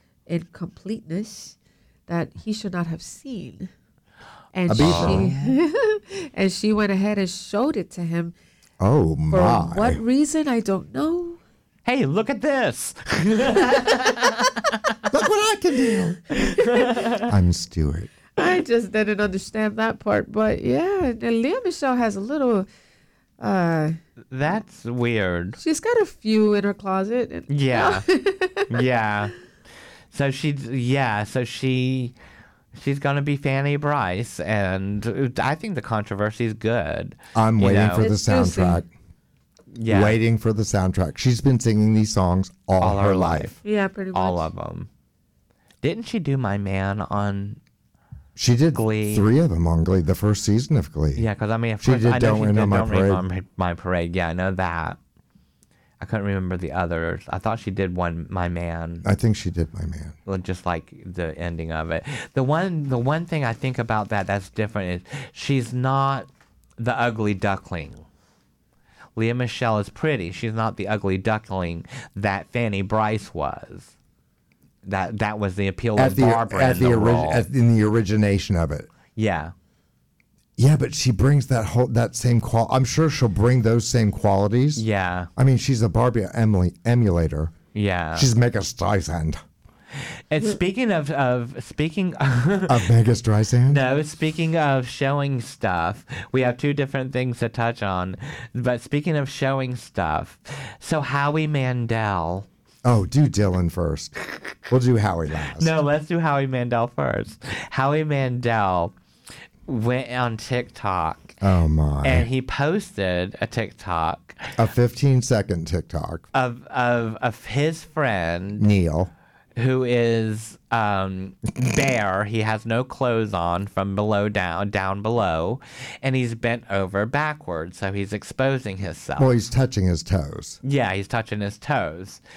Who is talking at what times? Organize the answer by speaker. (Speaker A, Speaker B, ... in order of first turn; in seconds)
Speaker A: 0.3-1.6, 2.1-3.7, 4.5-8.3, 9.3-11.4, 16.4-16.9, 18.4-22.7, 23.4-24.0, 25.6-28.8, 38.0-38.8, 43.6-44.5
Speaker B: 4.7-5.3, 8.8-10.0, 15.1-16.2, 17.2-18.1, 37.3-38.9, 39.9-43.5, 48.4-51.2, 51.8-53.2, 59.0-60.1, 76.0-78.9, 80.6-84.8, 85.4-87.5, 88.1-89.4, 92.7-93.8, 102.8-104.1, 104.7-105.7, 111.4-112.3, 114.6-116.2, 118.6-119.1, 129.2-130.6
Speaker C: 4.8-5.6, 11.8-14.9, 16.5-17.2, 24.3-25.6, 27.5-28.0, 28.7-29.3, 30.1-32.1, 32.7-38.0, 39.7-40.1, 42.8-43.5, 44.1-44.9, 45.8-47.6, 48.7-49.3, 51.1-55.0, 56.0-59.0, 60.3-66.3, 66.8-68.0, 69.2-73.9, 74.8-77.5, 79.2-79.5, 84.8-85.3, 87.7-88.3, 90.3-92.9, 93.7-102.5, 105.5-108.9, 109.7-111.4, 112.0-114.4, 116.3-118.7, 119.5-129.3, 130.6-132.2